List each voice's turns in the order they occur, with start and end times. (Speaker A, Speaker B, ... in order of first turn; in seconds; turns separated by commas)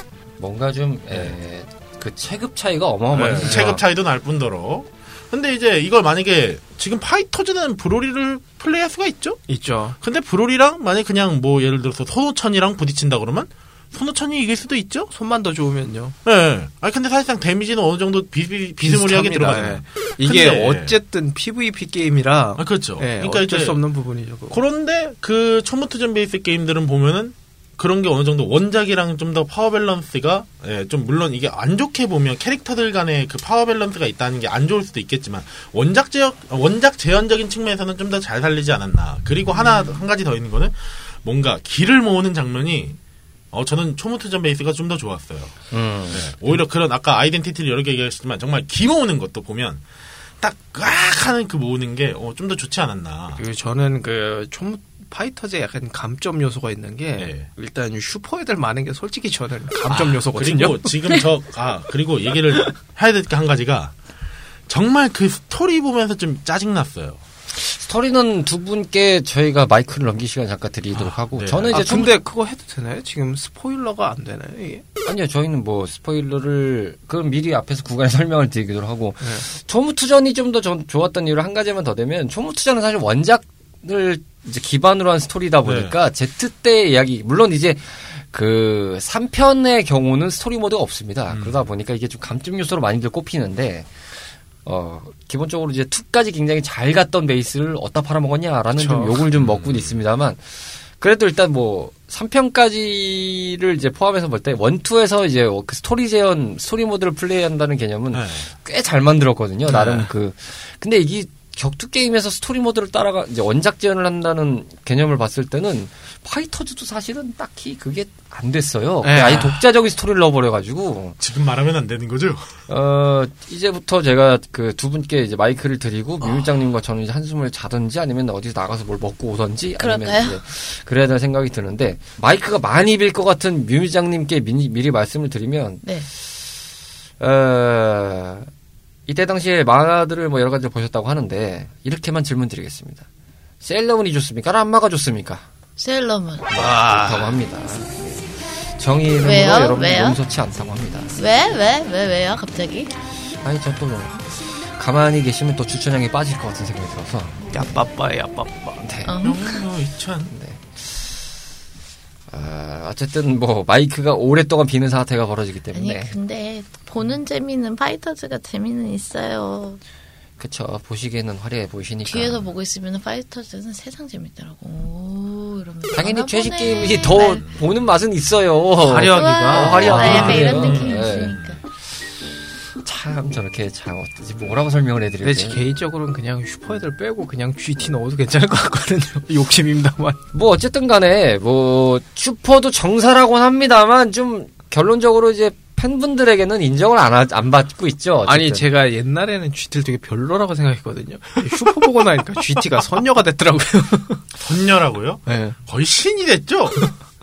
Speaker A: 0.4-3.8, Speaker B: 3.1-9.4, Speaker C: 9.5-10.0, Speaker B: 10.0-15.1, Speaker C: 15.1-16.1, Speaker B: 16.2-20.9, Speaker C: 18.8-24.6, Speaker B: 22.6-23.8, Speaker B: 24.5-43.0, Speaker D: 39.6-40.0, Speaker B: 43.5-49.8, Speaker A: 45.7-46.3, Speaker B: 50.4-53.4, Speaker C: 53.4-60.9, Speaker B: 57.2-57.5, Speaker B: 59.9-64.0, Speaker B: 64.7-67.2, Speaker A: 67.5-72.1, Speaker B: 70.9-71.8, Speaker C: 71.7-74.8, Speaker A: 75.0-93.9, Speaker B: 85.6-85.9, Speaker B: 91.3-91.6, Speaker A: 94.7-121.2, Speaker C: 98.8-99.2, Speaker B: 99.3-99.9, Speaker B: 108.1-108.5, Speaker C: 109.7-110.1, Speaker C: 119.0-119.6, Speaker B: 121.2-122.5, Speaker A: 122.7-135.9, Speaker D: 129.8-130.4, Speaker A: 137.2-138.5, Speaker A: 139.1-143.1, Speaker A: 143.6-145.5, Speaker D: 145.8-146.5, Speaker A: 146.5-151.2, Speaker C: 146.6-147.4, Speaker D: 149.2-150.2, Speaker D: 151.2-152.9, Speaker A: 153.4-157.8, Speaker C: 157.5-158.8, Speaker A: 158.8-159.2, Speaker D: 159.1-159.6, Speaker B: 159.2-160.3, Speaker A: 160.3-161.2, Speaker A: 162.3-166.2, Speaker D: 165.7-169.8, Speaker A: 170.4-172.4, Speaker D: 172.1-177.4, Speaker A: 175.9-181.4, Speaker C: 178.8-180.7, Speaker D: 179.0-181.6, Speaker B: 179.9-181.6, Speaker A: 182.8-185.6, Speaker C: 185.2-190.2, Speaker A: 190.3-198.7, Speaker C: 198.2-204.2, Speaker B: 204.3-206.9, Speaker C: 205.3-205.6